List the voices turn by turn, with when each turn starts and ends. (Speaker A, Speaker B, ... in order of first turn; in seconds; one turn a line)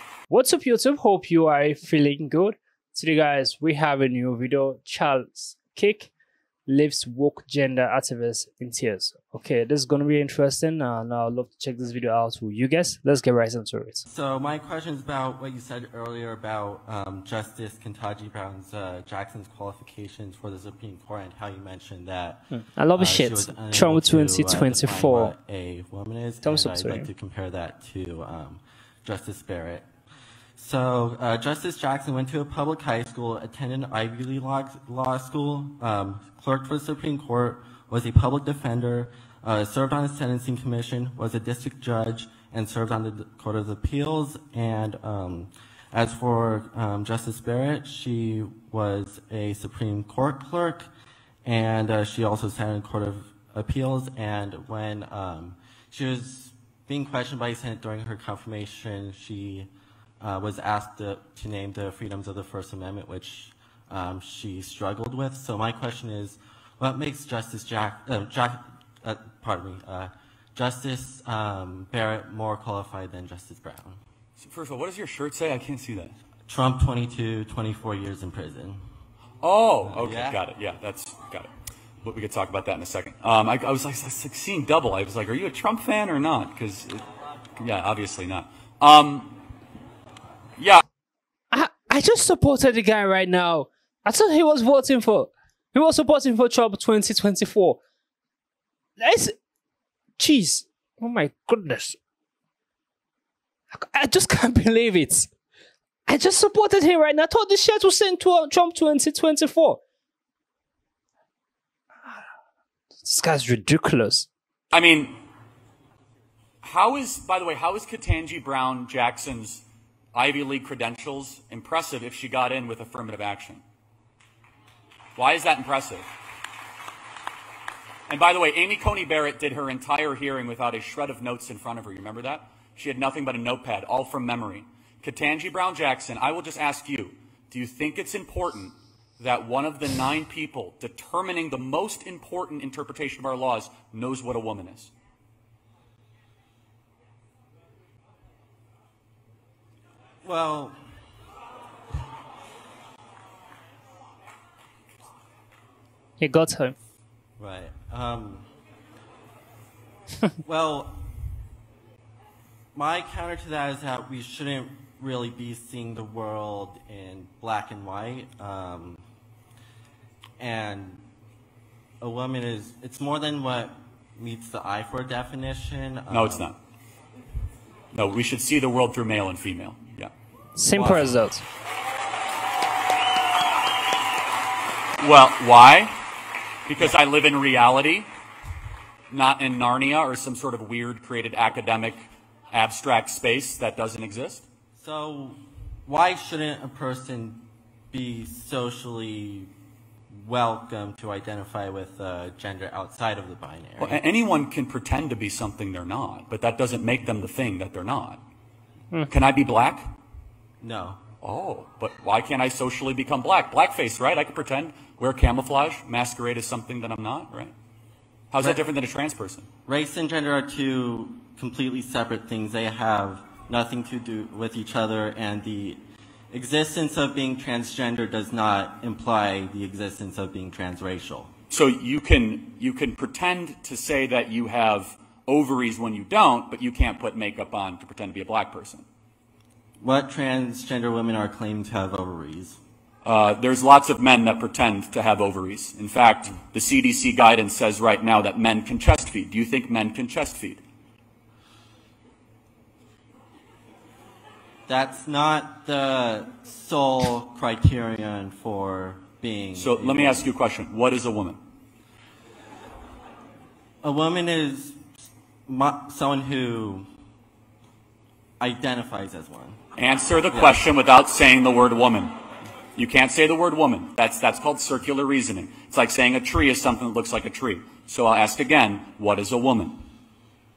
Speaker A: 0.3-6.1
Speaker A: 6.7-14.0
Speaker B: 14.1-29.9
Speaker A: 22.5-25.3
Speaker A: 26.4-27.1
Speaker B: 30.6-50.9
Speaker B: 51.5-59.7
Speaker B: 60.2-74.0
Speaker C: 74.4-76.2
Speaker B: 76.5-78.8
Speaker C: 79.4-81.5
Speaker B: 79.8-80.4
Speaker C: 82.0-87.0
Speaker C: 87.6-89.4
Speaker A: 91.5-97.8
Speaker A: 99.0-99.3
Speaker A: 100.2-102.0
Speaker A: 103.7-105.3
Speaker A: 106.1-109.8
Speaker A: 113.0-114.3
Speaker C: 114.7-115.2
Speaker C: 116.6-123.6
Speaker C: 125.2-126.1
Speaker C: 128.1-144.9
Speaker B: 150.2-150.8
Speaker A: 156.2-156.8
Speaker B: 157.4-158.5
Speaker B: 160.4-161.1
Speaker B: 162.8-169.0
Speaker B: 170.4-171.0
Speaker B: 172.0-176.5
Speaker C: 176.1-176.6
Speaker C: 177.9-180.1
Speaker A: 180.6-181.4
Speaker B: 180.7-181.2
Speaker C: 185.0-185.9
Speaker C: 186.7-188.1
Speaker C: 189.1-194.5
Speaker B: 194.8-199.5
Speaker B: 200.1-204.0
Speaker C: 203.8-208.2
Speaker C: 209.1-209.9
Speaker B: 210.6-211.0
Speaker C: 211.2-217.5
Speaker C: 218.3-219.5
Speaker B: 218.4-218.7
Speaker B: 219.7-225.8
Speaker B: 226.3-231.3
Speaker C: 231.5-238.8
Speaker B: 239.8-242.6
Speaker C: 243.1-250.6
Speaker B: 254.7-260.3
Speaker C: 259.6-261.4
Speaker B: 263.8-264.8
Speaker B: 265.5-266.9
Speaker B: 268.4-269.6
Speaker C: 269.8-272.1
Speaker B: 270.3-270.7
Speaker C: 272.8-279.8